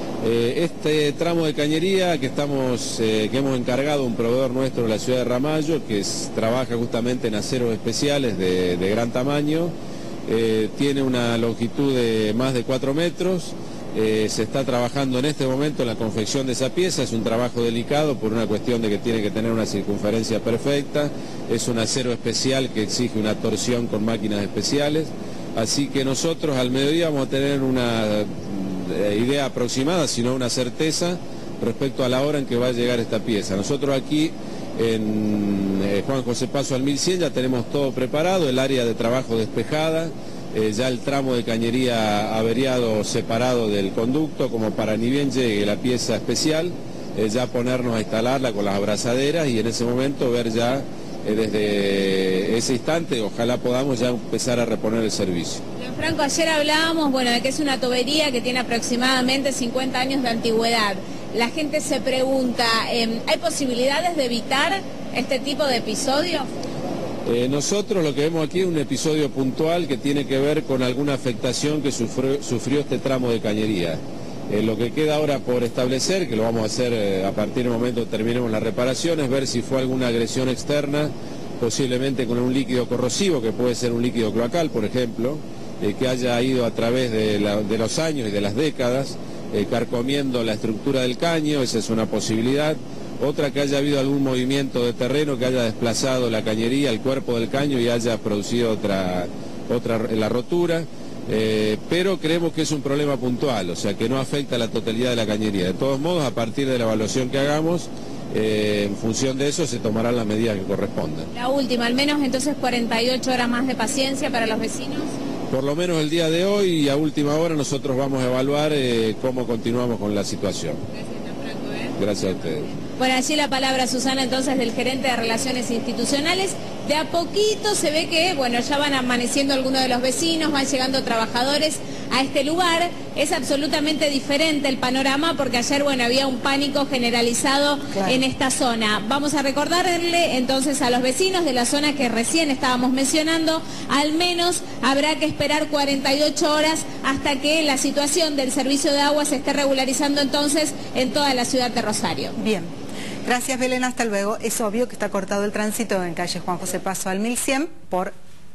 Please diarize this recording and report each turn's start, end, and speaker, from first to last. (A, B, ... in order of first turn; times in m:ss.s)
0:00.2-0:09.7 A
0:10.3-0:55.6 A
0:55.8-1:06.5 B
1:07.2-1:51.3 A
1:51.3-1:55.1 B
1:55.5-2:00.8 A
2:00.9-2:02.2 B
2:02.0-2:02.7 A
2:02.8-2:32.4 B
2:18.0-2:18.2 C
2:32.4-2:32.7 C
2:33.2-2:38.1 C